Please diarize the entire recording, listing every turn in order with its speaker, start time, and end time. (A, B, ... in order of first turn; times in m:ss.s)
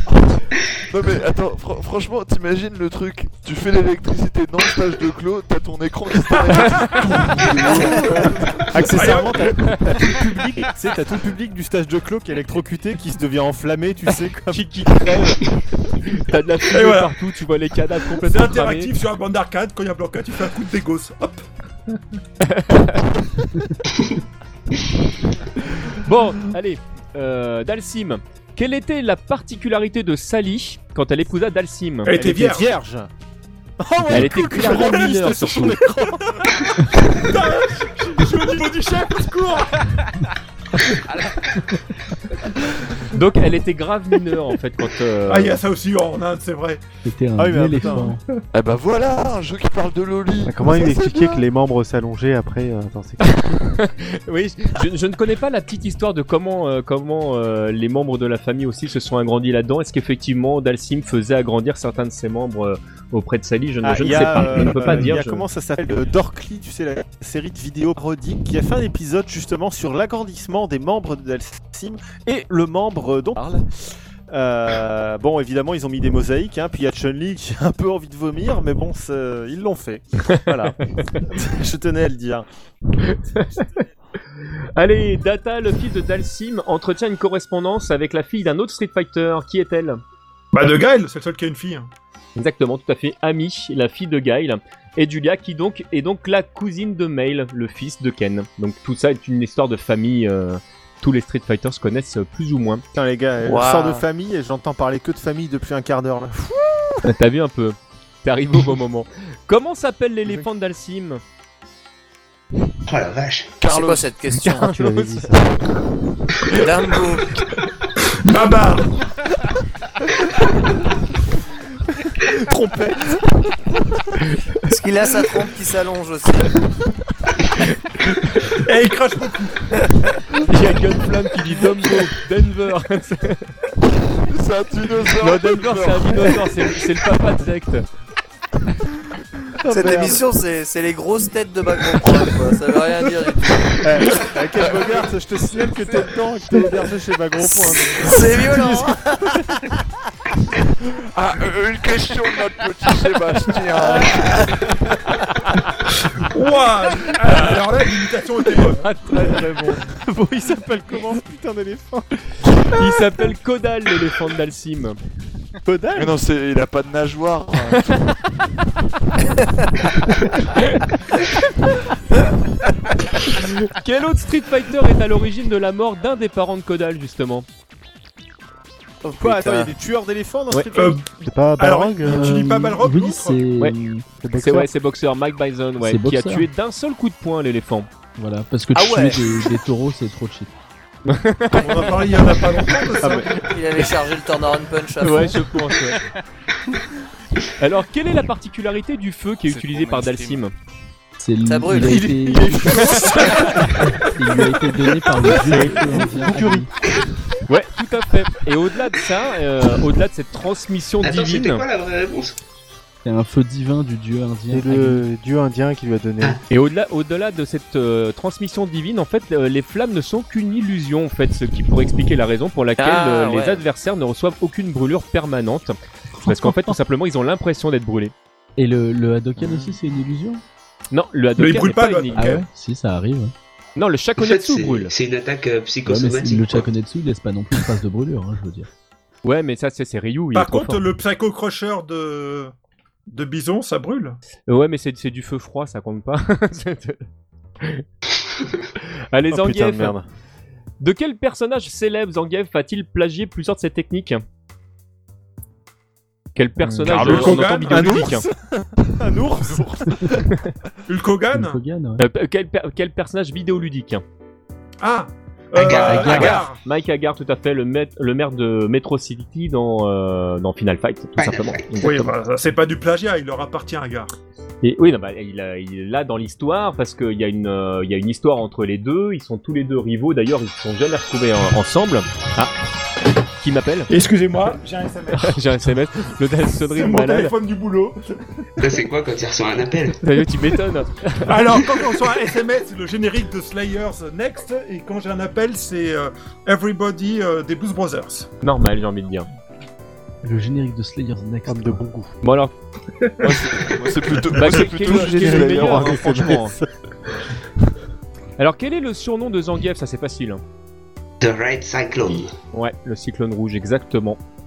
0:00.9-0:08.9 A
0:07.9-0:14.6 B
0:08.9-0:09.5 C
0:14.4-0:15.5 D
0:16.0-0:18.9 D
0:16.7-0:17.2 C
0:18.2-0:21.4 C
0:22.4-0:23.0 D
0:26.0-0:32.1 D
0:32.0-0:32.7 C
0:32.2-0:33.1 B
0:33.8-0:36.3 B
0:34.1-0:35.8 D
0:34.4-0:35.7 C
0:36.3-0:39.9 C
0:43.1-0:45.6 D
0:45.3-0:46.8 C
0:47.0-0:48.2 E
0:47.4-0:48.1 B
0:47.8-0:48.4 C
0:48.5-0:51.4 A
0:50.4-0:53.5 F
0:53.5-1:05.4 D
1:03.8-1:13.6 B
1:13.4-1:13.6 A
1:14.3-1:22.4 B
1:23.0-1:23.8 D
1:24.7-1:30.0 D
1:30.5-1:31.9 C
1:32.4-1:42.8 D
1:42.9-1:47.0 B
1:43.4-1:44.0 G
1:47.0-1:51.2 D
1:52.9-1:53.5 H
1:53.6-1:54.1 A
1:53.6-1:54.7 G
1:54.4-1:55.3 D
1:54.6-1:55.6 F
1:56.5-1:57.4 G
1:58.1-1:59.0 C
2:04.7-2:06.6 G
2:08.4-2:09.6 C
2:10.4-2:13.5 D
2:14.3-2:16.5 A
2:15.2-2:17.8 D
2:19.6-2:20.2 B
2:19.7-2:24.3 G
2:23.8-2:28.9 B
2:27.4-2:29.3 G
2:31.1-2:34.4 A
2:36.2-2:38.8 C
2:38.8-2:42.2 B
2:42.7-2:45.0 D
2:45.6-2:46.1 B
2:45.9-2:48.0 A
2:50.6-2:50.8 D
2:53.3-2:57.4 D
2:59.0-2:59.7 G
2:59.2-3:01.0 B
3:00.7-3:03.4 C
3:01.2-3:02.7 F
3:02.0-3:04.1 E
3:04.2-3:04.7 F
3:04.4-3:07.9 D
3:05.8-3:06.5 E
3:08.2-3:10.5 E
3:08.7-3:09.5 G
3:11.1-3:12.1 D
3:11.5-3:13.3 C
3:13.4-3:15.6 G
3:15.0-3:16.0 D
3:17.6-3:20.5 D
3:19.6-3:20.3 A
3:21.2-3:26.7 E
3:21.4-3:22.2 G
3:21.9-3:23.3 A
3:25.4-3:26.6 F
3:27.5-3:31.6 D
3:31.0-3:32.4 H
3:33.0-3:35.0 E
3:34.5-3:36.4 F
3:36.5-3:48.1 D
3:42.8-3:43.6 G
3:46.1-3:46.8 E
3:48.6-3:50.4 E
3:49.4-3:49.7 G
3:50.9-3:52.4 D
3:51.4-3:52.4 C
3:52.1-3:53.3 E
3:53.8-3:54.9 D
3:54.2-3:56.7 H
3:55.8-3:58.7 E
3:59.2-4:00.8 D
4:00.3-4:02.5 C
4:03.1-4:04.2 C
4:04.5-4:07.0 D
4:09.1-4:10.0 D
4:09.3-4:10.0 B
4:10.8-4:14.2 D
4:16.3-4:18.3 D
4:16.8-4:18.2 A
4:16.8-4:18.2 C
4:19.0-4:19.7 B
4:19.2-4:20.3 A
4:20.9-4:21.6 C
4:21.3-4:22.0 E
4:22.0-4:24.0 D
4:24.8-4:26.6 C
4:25.5-4:26.4 H
4:25.9-4:32.1 D
4:31.2-4:31.9 H
4:31.8-4:34.1 C
4:34.6-4:42.5 D
4:43.4-4:43.9 D
4:43.9-4:45.4 C
4:45.1-4:47.3 D
4:46.6-4:48.4 C
4:48.6-4:50.0 H
4:50.0-4:51.4 D
4:51.2-4:58.3 C
4:58.4-4:59.3 D
5:00.2-5:01.8 E
5:01.4-5:02.1 F
5:02.2-5:02.5 D
5:03.0-5:03.3 C
5:03.2-5:06.1 A
5:04.3-5:06.5 D
5:04.7-5:06.6 F
5:06.1-5:06.4 B
5:08.4-5:10.4 D
5:11.2-5:12.3 H
5:12.5-5:14.2 D